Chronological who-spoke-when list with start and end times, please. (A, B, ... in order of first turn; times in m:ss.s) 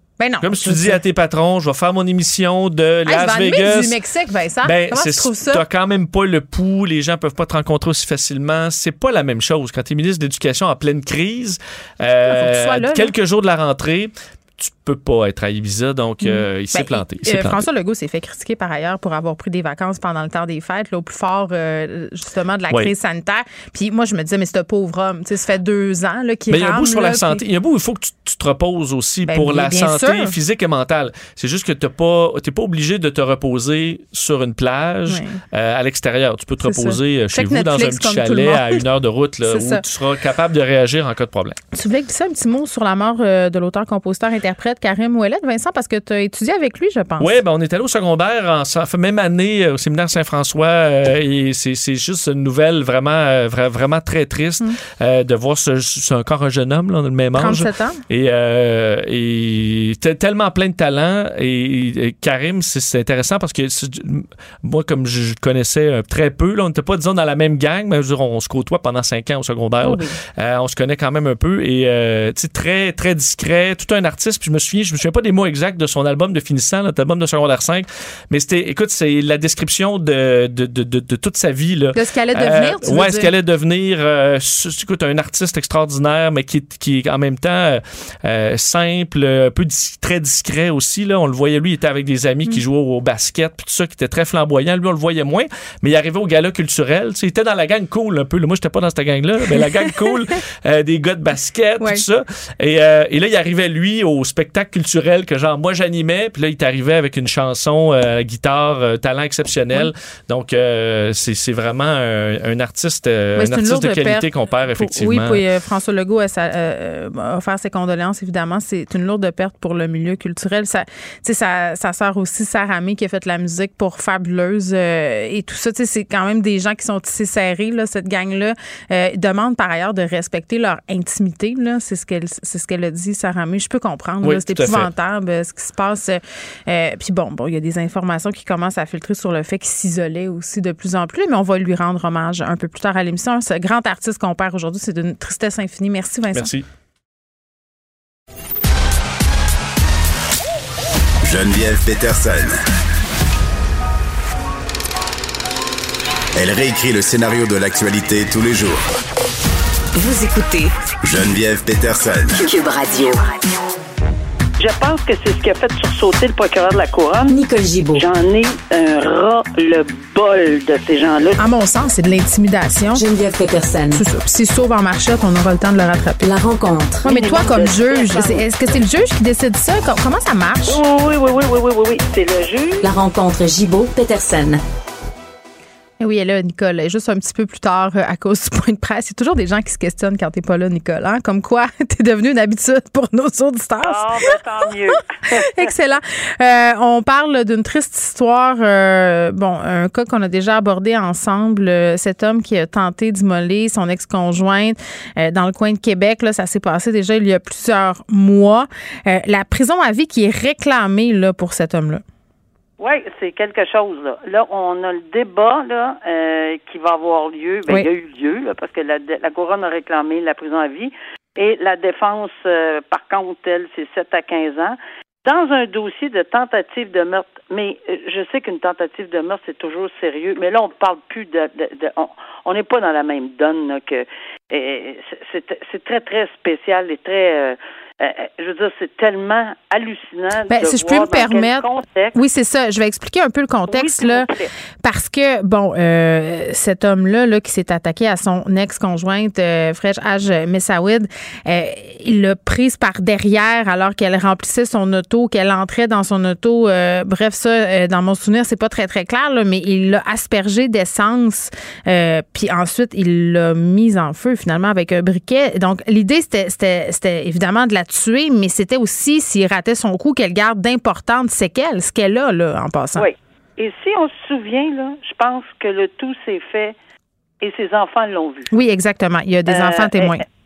0:00.2-0:01.0 A
0:00.4-0:03.9 B
0:03.0-0:05.6 A
0:04.6-0:17.6 B
0:12.2-0:13.1 A
0:16.2-0:27.4 A
0:26.5-0:41.5 B
0:29.3-0:30.3 A
0:35.1-0:35.4 A
0:36.6-0:38.8 A
0:39.4-0:39.8 A
0:41.7-0:47.4 A
0:47.2-1:55.4 B
0:57.3-0:58.0 A
1:21.9-1:23.3 A
1:53.4-2:26.5 A
2:14.2-2:14.9 B
2:26.3-2:26.6 B
2:31.2-2:32.6 C
2:36.4-2:38.8 C
2:40.0-2:40.7 D
2:41.0-2:42.4 C
2:42.4-2:43.4 D
2:44.6-2:47.4 E
2:47.3-2:48.0 D
2:47.9-2:51.4 E
2:51.4-2:53.0 A
2:52.9-2:54.0 D
2:53.9-2:56.2 A
2:56.2-2:57.7 D
2:57.0-3:00.8 A
2:57.1-2:58.4 E
3:00.7-3:02.9 E
3:02.8-3:04.6 D
3:06.0-3:14.3 A
3:13.8-3:15.7 E
3:14.9-3:32.0 A
3:32.8-4:02.2 E
4:00.5-4:04.3 A
4:03.7-4:04.5 E
4:04.8-4:33.0 A
4:33.0-4:36.7 E
4:37.4-4:38.5 E
4:38.5-4:40.2 A
4:39.5-4:40.2 E